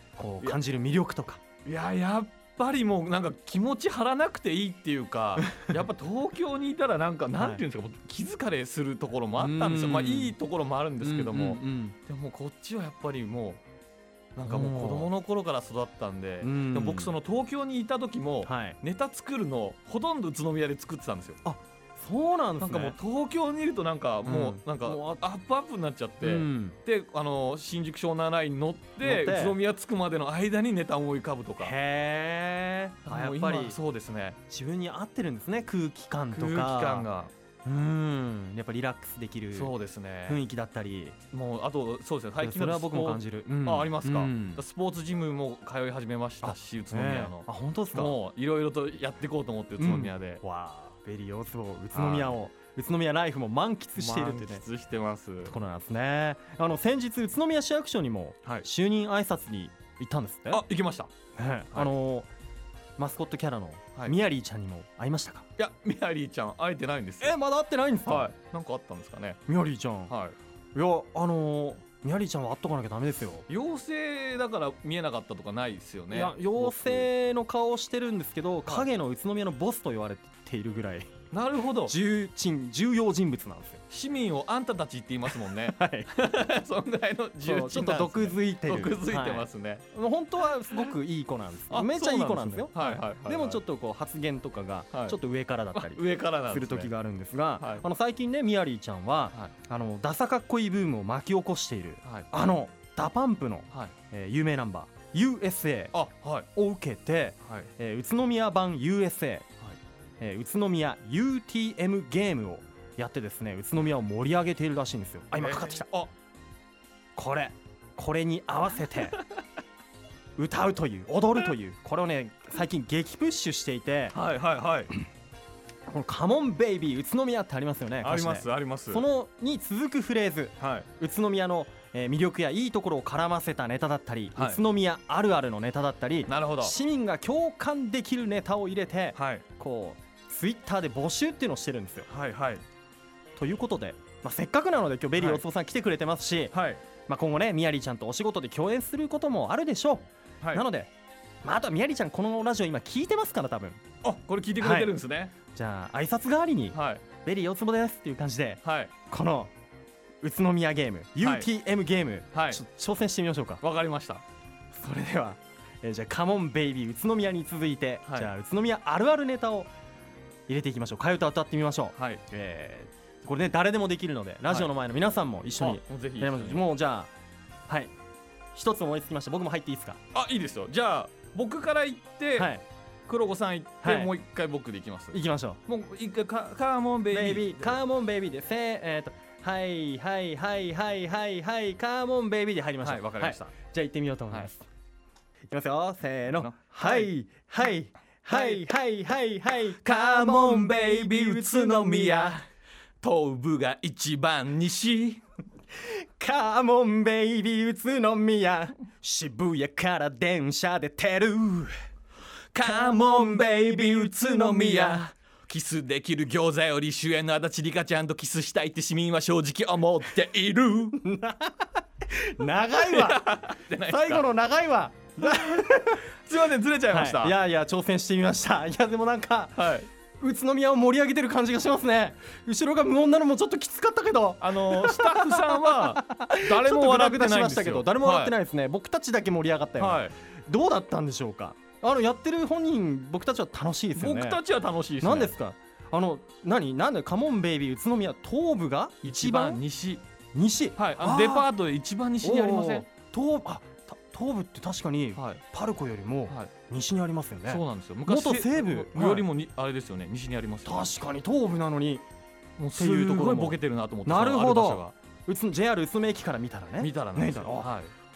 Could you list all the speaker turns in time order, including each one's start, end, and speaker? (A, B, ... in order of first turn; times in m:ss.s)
0:00.2-0:01.4 A
0:01.6-0:13.6 B
0:07.3-0:07.6 A
0:09.4-0:10.3 A
0:11.0-0:11.9 A
0:14.4-0:21.4 B
0:14.4-0:15.1 A
0:16.4-0:17.1 A
0:18.4-0:18.8 A
0:21.4-0:23.0 A
0:22.6-0:31.7 B
0:24.2-0:25.2 A
0:26.2-0:26.8 A
0:29.0-0:29.6 A
0:31.6-0:33.8 A
0:33.0-0:34.4 B
0:34.5-0:37.1 A
0:36.3-0:37.3 B
0:37.6-0:39.7 A
0:39.5-0:40.4 B
0:40.3-0:41.2 A
0:41.3-0:50.4 B
0:42.4-0:44.6 A
0:46.4-0:48.2 A
0:49.8-0:54.6 A
0:51.9-0:52.4 B
0:54.0-0:55.5 B
0:55.4-1:00.6 A
1:00.5-1:01.1 B
1:01.3-1:02.3 A
1:03.0-1:05.4 A
1:05.6-1:07.3 B
1:07.2-1:08.3 A
1:08.0-1:09.4 B
1:09.5-1:10.1 A
1:10.1-1:10.4 B
1:10.7-1:13.4 A
1:13.5-1:17.1 B
1:16.1-1:21.1 A
1:21.3-1:21.9 B
1:21.9-1:23.8 A
1:23.9-1:29.8 B
1:25.3-1:26.1 A
1:27.4-1:45.9 A
1:31.7-1:33.6 B
1:35.7-1:36.9 B
1:37.6-1:37.8 B
1:42.0-1:42.3 B
1:45.9-1:46.5 B
1:46.5-1:49.5 A
1:50.2-1:55.9 A
1:55.3-1:56.1 B
1:57.2-1:59.2 A
2:00.4-2:04.2 A
2:04.1-2:04.9 B
2:05.9-2:22.1 A
2:08.0-2:09.0 B
2:10.6-2:10.9 B
2:14.4-2:14.6 B
2:16.2-2:16.7 B
2:19.1-2:19.4 B
2:22.1-2:22.6 B
2:23.4-2:26.5 A
2:25.2-2:25.4 B
2:26.5-2:26.8 B
2:27.1-2:30.9 A
2:31.4-2:33.8 A
2:34.0-2:35.3 B
2:34.6-2:34.9 A
2:35.5-2:39.5 A
2:36.7-2:37.0 B
2:38.6-2:38.9 B
2:40.2-2:43.6 A
2:41.2-2:41.5 B
2:42.3-2:42.6 B
2:43.6-2:44.2 B
2:44.7-2:49.7 A
2:48.0-2:48.3 B
2:50.5-2:57.1 A
2:52.0-2:52.2 B
2:55.6-2:56.6 B
2:57.7-2:57.9 A
2:58.5-3:00.0 A
3:00.1-3:02.5 B
3:02.4-3:02.6 A
3:03.1-3:07.8 B
3:03.8-3:04.1 A
3:05.1-3:05.6 A
3:07.1-3:14.6 A
3:12.8-3:13.5 B
3:15.5-3:22.4 A
3:16.4-3:17.1 B
3:18.3-3:18.6 B
3:19.8-3:22.4 B
3:23.0-3:25.2 B
3:25.8-3:31.7 A
3:32.5-3:41.0 B
3:32.6-3:35.1 A
3:41.0-3:46.1 A
3:42.8-3:44.2 B
3:45.2-3:47.3 B
3:46.9-4:04.4 A
3:49.6-3:49.9 B
3:54.4-3:58.3 B
3:59.8-4:00.1 B
4:04.0-4:05.3 B
4:05.0-4:09.6 A
4:09.0-4:10.0 B
4:10.3-4:11.5 A
4:10.8-4:12.8 B
4:12.2-4:19.3 A
4:15.2-4:15.4 B
4:17.5-4:20.9 B
4:20.6-4:22.0 A
4:22.6-4:24.9 B
4:22.7-4:27.7 A
4:26.8-4:27.9 B